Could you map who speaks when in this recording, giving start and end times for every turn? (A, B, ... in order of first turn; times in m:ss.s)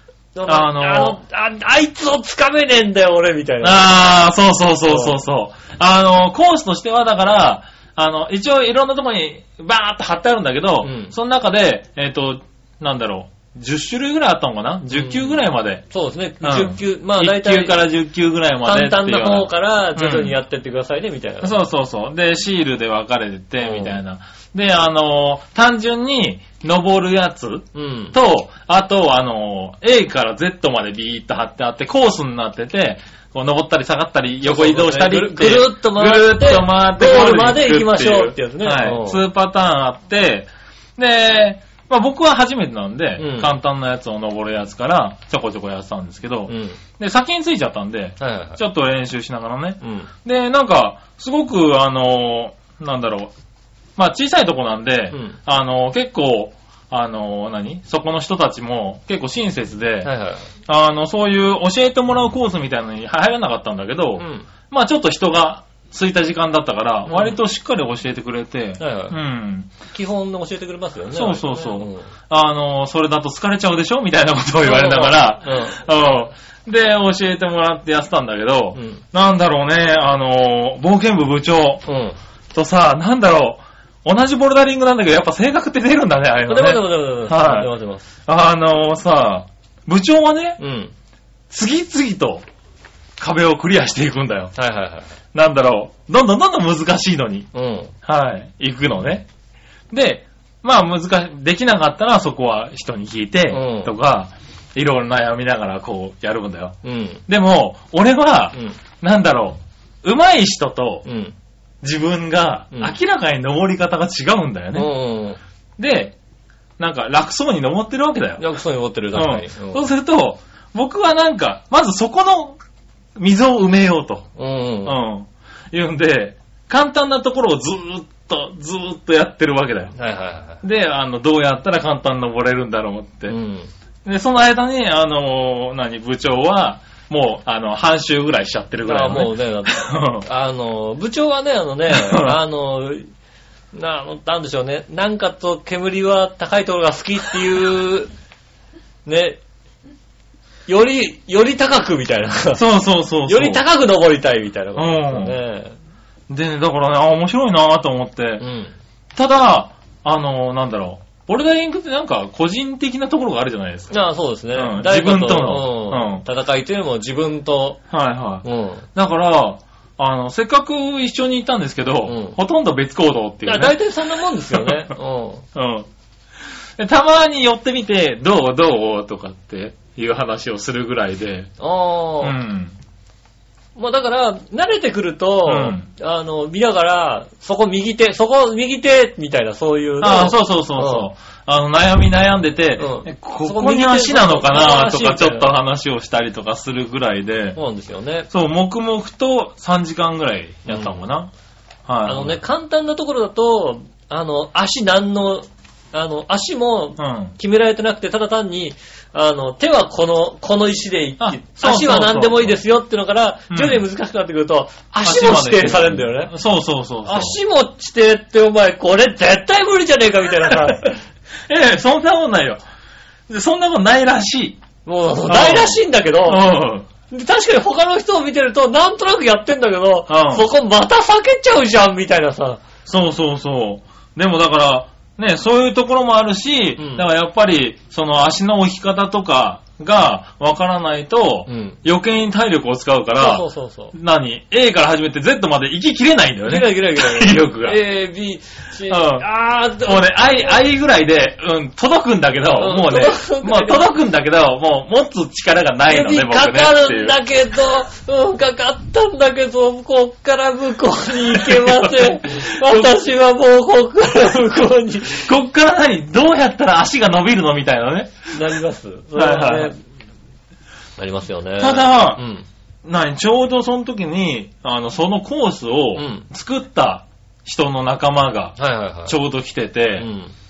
0:00.4-0:04.1 A
0:00.5-0:01.2 B
0:03.6-0:15.8 B
0:04.8-0:05.2 A
0:10.8-0:11.2 A
0:14.9-0:17.9 A
0:16.4-0:20.4 B
0:18.6-0:21.6 A
0:21.4-0:53.3 B
0:23.6-0:24.0 A
0:27.7-0:28.2 A
0:34.4-0:39.2 A
0:43.2-0:43.5 A
0:46.5-0:46.8 A
0:48.2-0:48.6 A
0:49.8-0:50.1 A
0:54.0-1:00.1 B
0:55.1-0:55.4 A
1:00.0-1:00.5 A
1:00.7-1:09.7 B
1:04.2-1:04.5 A
1:07.1-1:07.4 A
1:08.8-1:09.2 A
1:09.9-1:12.1 A
1:11.1-1:21.8 B
1:14.6-1:15.8 A
1:18.8-1:19.0 A
1:21.9-1:22.2 A
1:22.5-1:27.7 B
1:26.5-1:28.1 A
1:28.3-1:30.6 B
1:30.6-1:30.9 A
1:31.5-1:32.4 B
1:33.2-1:34.5 B
1:34.6-1:35.2 A
1:35.3-1:37.5 B
1:37.5-1:37.9 A
1:38.0-1:39.3 B
1:39.9-1:46.8 B
1:43.5-1:43.9 A
1:46.8-1:47.2 A
1:47.3-1:51.0 B
1:48.5-1:48.8 A
1:51.0-1:51.4 A
1:51.8-1:54.9 B
1:54.8-1:55.4 A
1:55.8-1:56.2 B
1:56.8-1:58.4 B
1:58.4-1:59.9 A
1:59.1-2:02.6 B
2:03.2-2:04.3 B
2:04.4-2:05.0 A
2:04.8-2:09.9 B
2:09.9-2:10.6 A
2:10.6-2:13.4 B
2:13.3-2:13.7 A
2:14.0-2:20.3 B
2:18.8-2:23.1 A
2:21.9-2:22.4 B
2:23.7-2:28.1 A
2:29.0-2:29.4 A
2:30.7-2:32.6 A
2:32.6-2:33.6 B
2:33.3-2:35.8 A
2:34.8-2:35.4 B
2:36.3-2:38.4 B
2:38.4-2:38.8 A
2:39.2-2:43.9 B
2:43.9-2:47.8 A
2:44.6-2:46.2 B
2:47.9-2:53.8 B
2:48.4-2:48.9 A
2:52.1-2:52.4 A
2:53.4-2:55.5 A
2:54.5-2:54.9 B
2:55.6-2:55.9 B
2:56.8-3:01.5 B
3:01.6-3:02.4 A
3:02.2-3:02.8 B
3:03.8-3:11.1 A
3:05.4-3:05.9 B
3:10.0-3:17.6 B
3:12.8-3:15.5 A
3:17.6-3:18.3 A
3:18.3-3:21.3 B
3:20.7-3:21.0 A
3:21.9-3:22.4 B
3:22.0-3:36.3 A
3:27.0-3:27.4 B
3:31.2-3:32.6 B
3:33.5-3:33.8 B
3:35.0-3:37.4 B
3:37.0-3:41.0 A
3:41.5-3:42.6 B
3:43.3-3:44.6 B
3:44.8-3:46.5 A
3:45.3-3:46.9 B
3:47.1-3:52.6 A
3:50.1-3:50.5 B
3:52.9-4:07.8 B
3:56.8-3:57.1 A
4:01.5-4:01.8 A
4:03.2-4:03.9 A
4:06.5-4:10.6 A
4:08.9-4:09.3 B
4:09.8-4:17.2 B
4:12.6-4:13.9 A
4:15.9-4:25.3 A
4:21.3-4:22.9 B
4:25.2-4:28.6 B
4:28.3-4:29.8 A
4:29.2-4:29.7 B
4:31.0-4:32.5 A
4:31.6-4:32.2 B
4:32.8-4:38.6 B
4:36.0-4:36.3 A
4:38.6-4:39.2 A
4:39.1-4:40.1 B
4:40.0-4:40.3 A